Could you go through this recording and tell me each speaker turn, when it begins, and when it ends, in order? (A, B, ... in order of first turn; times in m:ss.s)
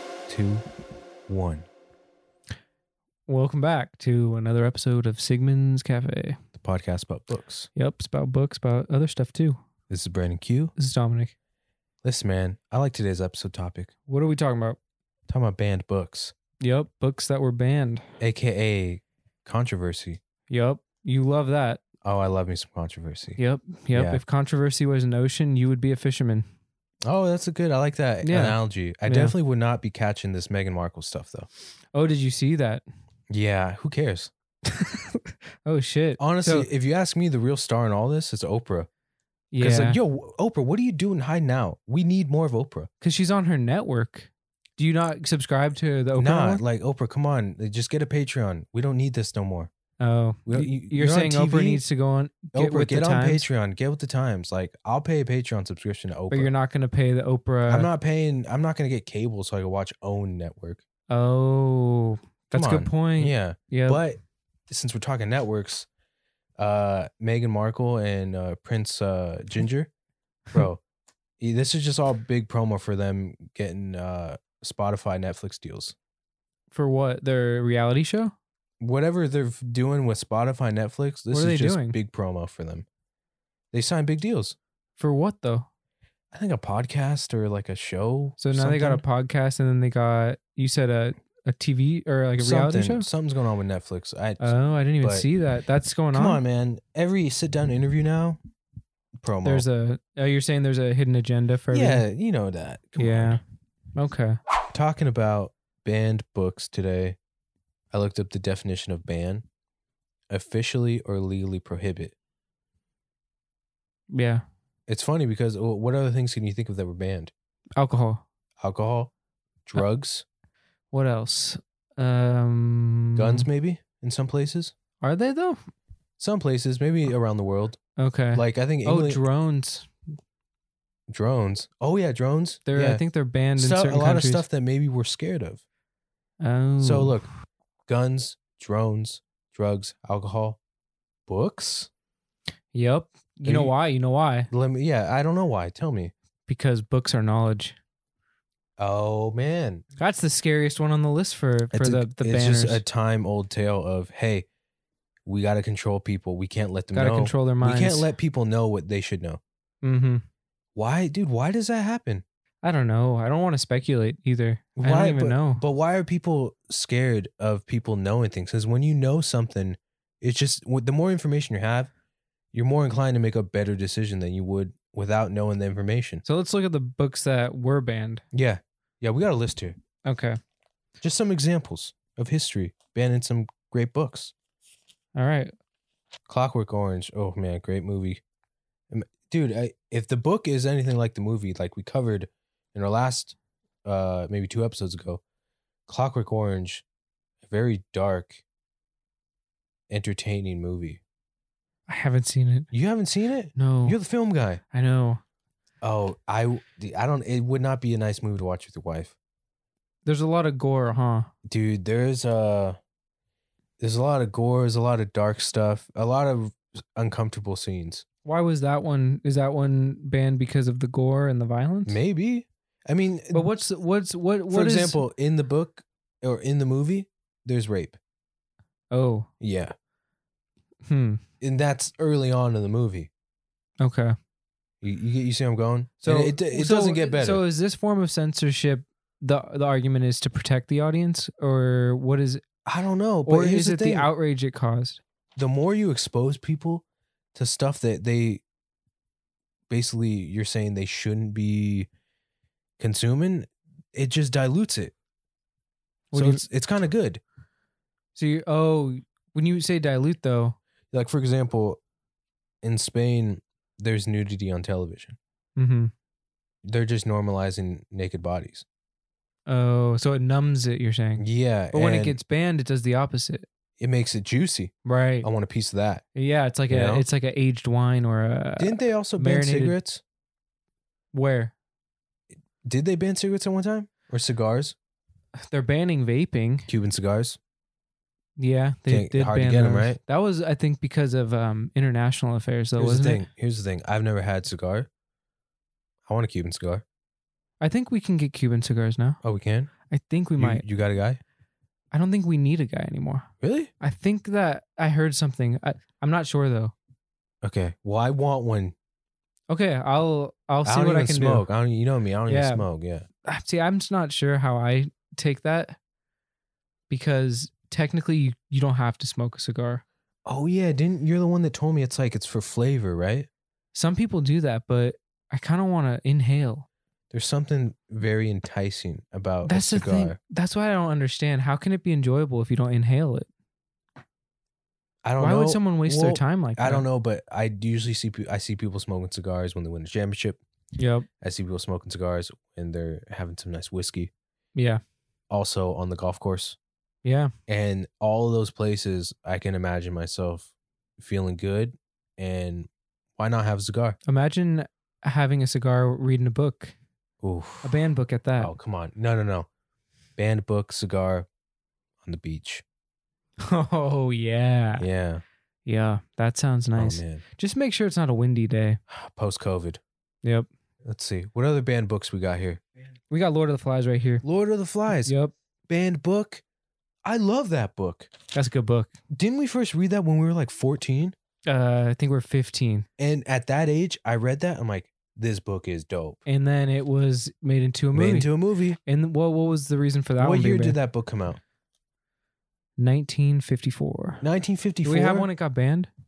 0:00.3-0:00.6 A
0:01.3-0:01.7 A
0:03.3-0:06.4 B
0:06.5-0:07.7 A
0:07.7-0:09.6 B
0:09.9-0:10.7 A
0:10.8-0:11.3 B
0:12.0-0:13.9 A
0:14.1-0:14.8 B
0:15.3-0:16.3 A
0:16.6-0:18.0 B
0:18.2-0:20.2 A
0:20.5-0:21.8 B
0:22.0-0:23.4 A
0:23.4-0:26.5 B
0:23.9-0:24.2 A
0:27.0-0:31.5 A
0:28.2-0:29.4 B
0:31.9-0:32.8 B
0:33.3-0:34.3 A
0:34.7-0:36.7 B
0:36.2-0:38.9 A
0:39.5-0:40.0 B
0:39.6-0:42.9 A
0:43.0-0:46.6 B
0:46.2-0:49.7 A
0:50.0-0:53.5 B
0:50.4-0:51.8 A
0:52.5-0:56.5 A
0:56.3-0:57.9 B
0:57.7-1:00.8 A
1:01.1-1:04.0 B
1:02.5-1:04.2 A
1:04.7-1:05.9 A
1:06.6-1:09.9 A
1:10.5-1:10.8 A
1:11.4-1:15.9 A
1:16.7-1:18.3 B
1:18.8-1:22.8 A
1:21.3-1:22.0 B
1:23.7-1:24.6 A
1:25.0-1:25.7 B
1:26.3-1:29.0 A
1:28.4-1:33.1 B
1:32.4-1:35.2 A
1:34.4-1:36.4 B
1:36.1-1:38.4 A
1:39.2-1:39.6 A
1:39.4-1:42.0 B
1:41.7-1:43.4 A
1:43.0-1:43.4 B
1:44.0-1:44.4 B
1:44.7-1:47.2 A
1:47.9-1:49.4 A
1:50.3-1:52.1 A
1:54.1-1:54.4 B
1:54.9-1:57.3 A
1:57.8-1:58.2 B
1:58.6-1:59.1 A
1:59.6-2:00.2 A
2:00.9-2:03.5 B
2:03.2-2:04.7 A
2:05.0-2:05.6 B
2:06.2-2:07.8 A
2:08.0-2:09.9 B
2:08.3-2:09.2 A
2:11.1-2:13.0 A
2:12.6-2:14.4 B
2:13.6-2:15.6 A
2:16.4-2:17.2 B
2:16.8-2:17.3 A
2:17.9-2:20.6 A
2:21.3-2:21.9 A
2:22.7-2:24.5 B
2:23.4-2:23.7 A
2:24.5-2:26.1 A
2:26.5-2:27.8 B
2:28.8-2:29.8 A
2:30.0-2:32.8 B
2:31.7-2:34.4 A
2:35.2-2:39.4 A
2:36.9-2:38.1 B
2:39.8-2:40.2 B
2:40.8-2:42.2 A
2:42.6-2:45.6 B
2:44.8-2:51.9 A
2:52.5-2:56.2 A
2:56.2-2:58.2 B
2:58.3-2:59.8 A
3:00.0-3:00.4 B
3:01.0-3:04.3 A
3:05.2-3:05.5 B
3:06.3-3:08.2 A
3:08.9-3:15.2 A
3:15.9-3:16.8 A
3:17.4-3:18.4 A
3:19.9-3:21.0 A
3:21.9-3:22.7 B
3:22.7-3:24.6 A
3:23.5-3:24.0 B
3:24.7-3:25.2 B
3:25.8-3:29.1 A
3:30.0-3:31.3 B
3:31.4-3:32.8 A
3:33.8-3:38.0 A
3:38.2-3:42.0 B
3:41.8-3:43.5 A
3:43.3-3:45.0 B
3:44.5-3:48.0 A
3:48.9-3:49.3 B
3:49.4-3:49.7 A
3:50.9-3:51.2 B
3:51.4-3:53.1 A
3:53.8-3:54.1 B
3:54.8-3:57.4 A
3:56.0-4:02.4 B
4:02.6-4:04.1 A
4:03.2-4:05.0 B
4:05.4-4:08.4 A
4:09.7-4:11.9 A
4:12.8-4:14.9 A
4:16.1-4:16.4 B
4:16.1-4:17.2 A
4:18.1-4:20.6 B
4:20.9-4:21.8 A
4:22.6-4:25.2 A
4:25.6-4:25.9 B
4:26.6-4:28.6 A
4:29.5-4:33.5 B
4:31.2-4:32.2 A
4:33.8-4:36.0 A
4:34.8-4:35.3 B
4:36.1-4:39.8 B
4:36.7-4:37.0 A
4:38.6-4:40.0 A
4:41.1-4:41.5 B
4:42.6-4:44.8 A
4:45.4-4:46.7 B
4:46.7-4:47.4 A
4:48.4-4:53.3 B
4:48.9-4:50.0 A
4:52.8-4:54.9 A
4:56.1-4:56.8 A
4:57.6-4:59.2 B
4:59.2-4:59.7 A
4:59.9-5:00.6 B
5:00.4-5:01.2 A
5:01.9-5:03.3 B
5:03.4-5:03.7 A
5:03.8-5:06.7 B
5:07.4-5:08.7 A
5:09.5-5:11.4 B
5:10.6-5:13.0 A
5:12.3-5:12.6 B
5:13.2-5:15.8 B
5:16.9-5:19.8 B
5:20.2-5:23.3 A
5:23.7-5:26.6 B
5:27.1-5:30.2 A
5:29.4-5:33.3 B
5:35.0-5:40.4 A
5:35.2-5:36.8 B
5:40.8-5:41.1 B
5:41.2-5:44.1 A
5:44.5-5:44.8 B
5:45.3-5:46.6 A
5:47.0-5:47.3 B
5:47.5-5:54.0 A
5:54.0-5:56.7 B
5:57.2-5:57.7 A
5:57.6-5:58.5 B
5:58.4-5:59.5 A
6:00.2-6:01.3 A
6:02.0-6:02.6 A
6:03.4-6:04.8 B
6:04.8-6:05.2 A
6:05.6-6:08.8 B
6:06.8-6:07.2 A
6:08.9-6:09.8 A
6:10.8-6:12.6 A
6:13.1-6:14.2 B
6:14.2-6:15.1 A
6:14.9-6:15.3 B
6:15.7-6:16.4 A
6:17.0-6:18.1 A
6:18.3-6:18.9 B
6:19.1-6:21.1 A
6:21.4-6:22.8 B
6:23.0-6:26.2 A
6:26.2-6:28.3 B
6:27.9-6:28.8 A
6:28.8-6:30.8 B
6:30.2-6:31.4 A
6:32.8-6:34.2 B
6:34.2-6:35.3 A
6:34.8-6:35.9 B